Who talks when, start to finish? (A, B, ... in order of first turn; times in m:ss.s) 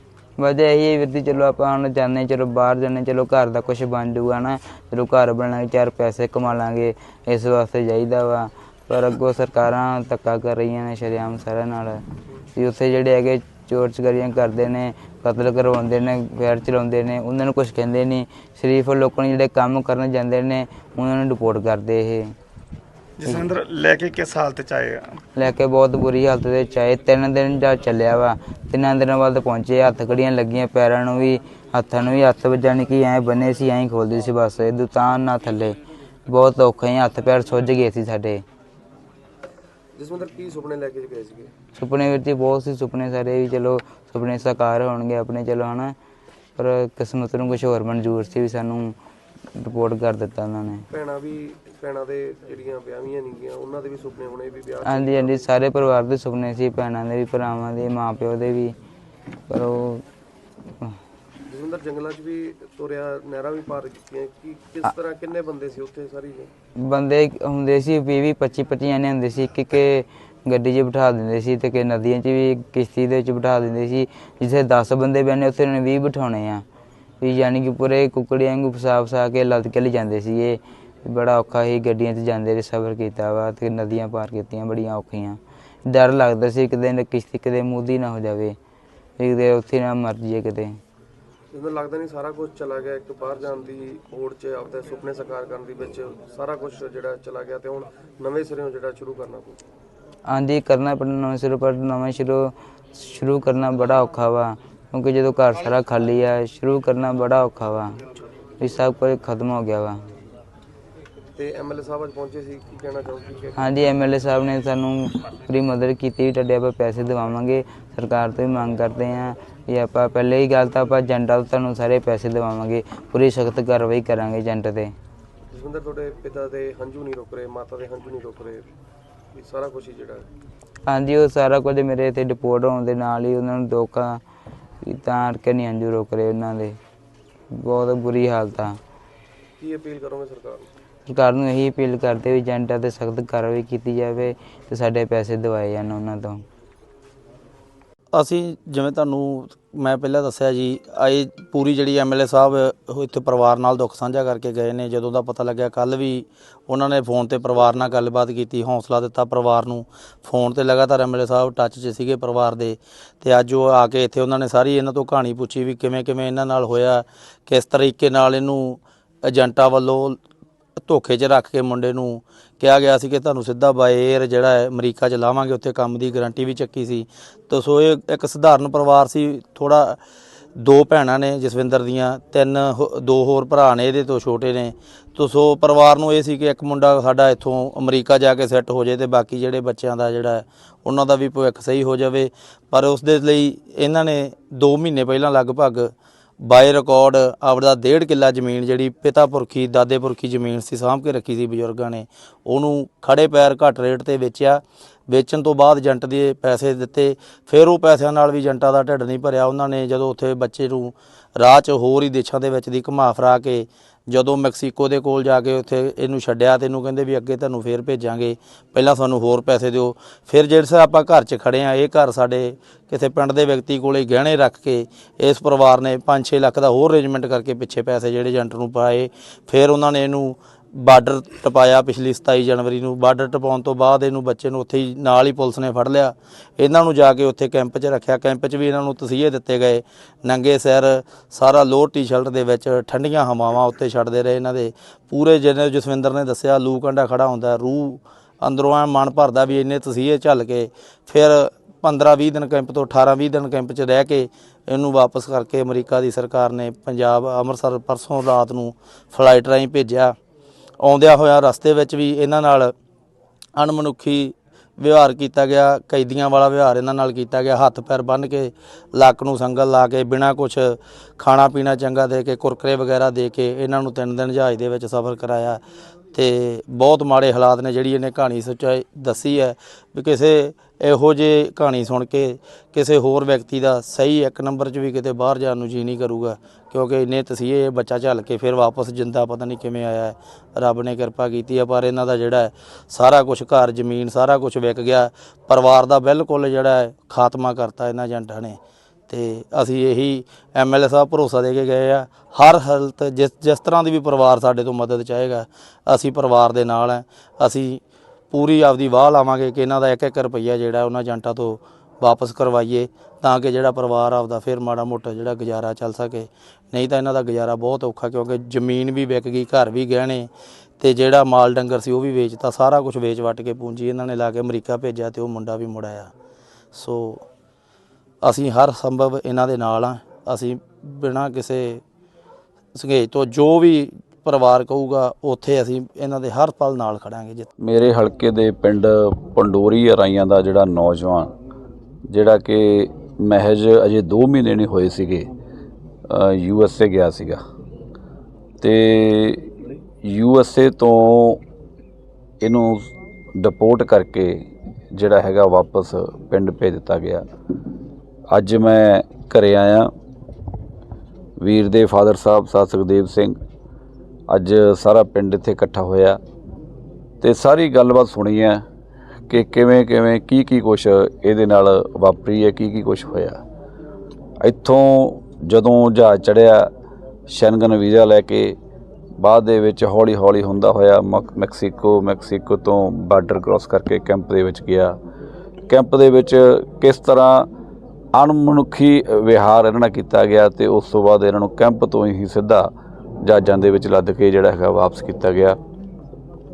0:00.4-0:12.0 A
0:12.5-0:22.3 A
0:23.2-0:25.2 B
0:25.4-0:35.8 A
0:36.3-0:38.4 A
0:40.0-0:41.5 C
0:41.8-0:45.9 A
0:46.6-0:48.9 A
0:49.5-0:50.8 A
0:50.9-0:55.5 C
0:54.8-0:58.7 A
0:59.5-1:00.0 A
1:01.5-1:06.5 C
1:06.8-1:16.6 A
1:17.2-1:28.6 A
1:29.2-1:30.8 A
1:31.5-1:39.6 C
1:40.3-1:47.9 A
1:48.6-1:50.0 A
1:51.4-1:53.7 C
1:53.6-2:04.9 A
2:05.5-2:08.6 C
2:09.3-2:10.3 C
2:10.8-2:14.2 A
2:14.8-2:16.8 A
2:17.5-2:18.8 A
2:19.6-2:20.7 C
2:21.0-2:26.4 A
2:28.1-2:50.2 D
2:50.8-3:00.0 D
3:00.6-3:15.9 D
3:16.4-4:20.1 D
4:20.8-4:22.7 D
4:23.6-4:35.6 D
4:36.1-4:58.6 D
4:59.1-5:07.8 D
5:08.3-5:20.3 D
5:20.8-5:26.1 D
5:26.7-5:27.2 D
5:28.2-5:31.8 D
5:32.7-5:37.5 D
5:37.6-5:41.3 E
5:42.1-5:45.3 E
5:46.1-5:47.4 E
5:48.6-5:49.5 E
5:50.0-5:51.4 E
5:52.4-5:57.2 E
5:58.3-5:59.9 E
6:01.4-6:03.3 E
6:04.3-6:06.2 E
6:07.2-6:08.6 E
6:09.3-6:13.4 E
6:14.4-6:16.7 E
6:17.3-6:18.6 E
6:19.2-6:24.9 E
6:25.7-6:27.5 E
6:28.1-6:32.7 E
6:33.2-6:35.6 E